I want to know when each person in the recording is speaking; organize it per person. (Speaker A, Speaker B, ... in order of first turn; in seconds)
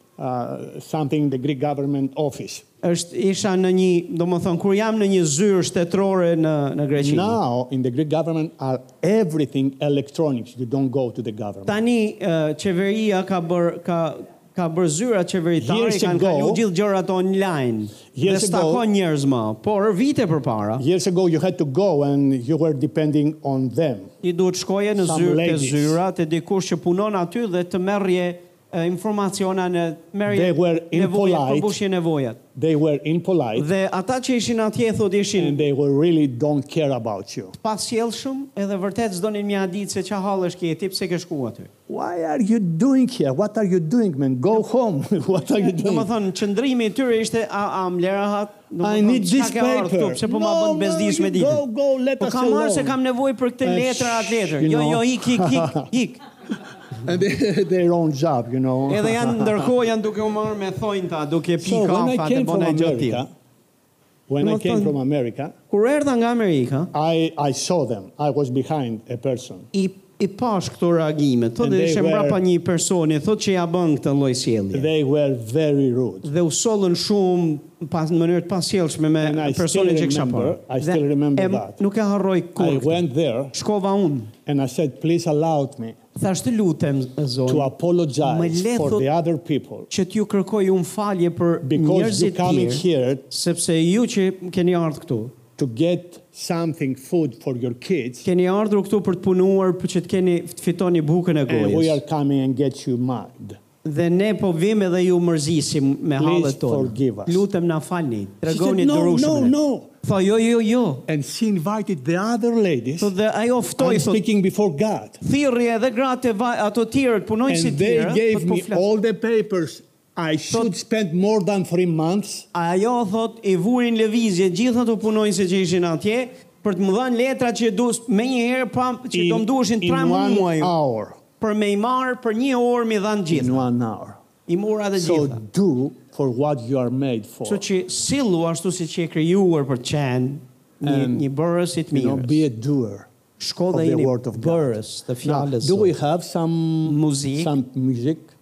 Speaker A: 0.2-2.6, 7.0-11.8, 15.6-16.6, 18.1-18.9, 20.8-24.1, 25.0-26.0, 30.3-31.8, 32.5-33.7, 35.4-37.5, 41.9-46.1, 48.8-53.0, 53.6-55.9, 57.0-59.7, 61.6-63.3, 64.3-65.5, 66.9-69.7, 71.6-72.4, 74.7-76.3, 79.2-81.8, 82.6-83.5, 84.5-86.0, 87.5-89.9, 91.6-93.3, 95.6-98.3, 101.5-103.6, 106.2-107.4, 108.5-109.9, 111.1-113.1, 113.8-115.2, 117.5-122.5, 129.1-131.2, 133.3-134.2, 135.0-137.7, 140.8-141.3, 141.9-143.1, 143.7-148.3
Speaker B: 2.8-7.4, 11.7-20.8, 24.2-32.4, 33.6-35.6, 37.6-41.7, 45.7-51.6, 52.2-56.2, 58.9-63.2, 64.4-65.0, 65.7-66.9, 69.7-74.9, 76.2-83.0, 83.5-84.3, 86.2-89.1, 89.9-95.3, 98.2-102.0, 103.8-111.0, 113.0-114.2, 115.2-118.8, 122.5-130.7, 131.4-133.7, 134.5-135.4, 137.5-142.4, 143.4-145.9, 146.8-147.5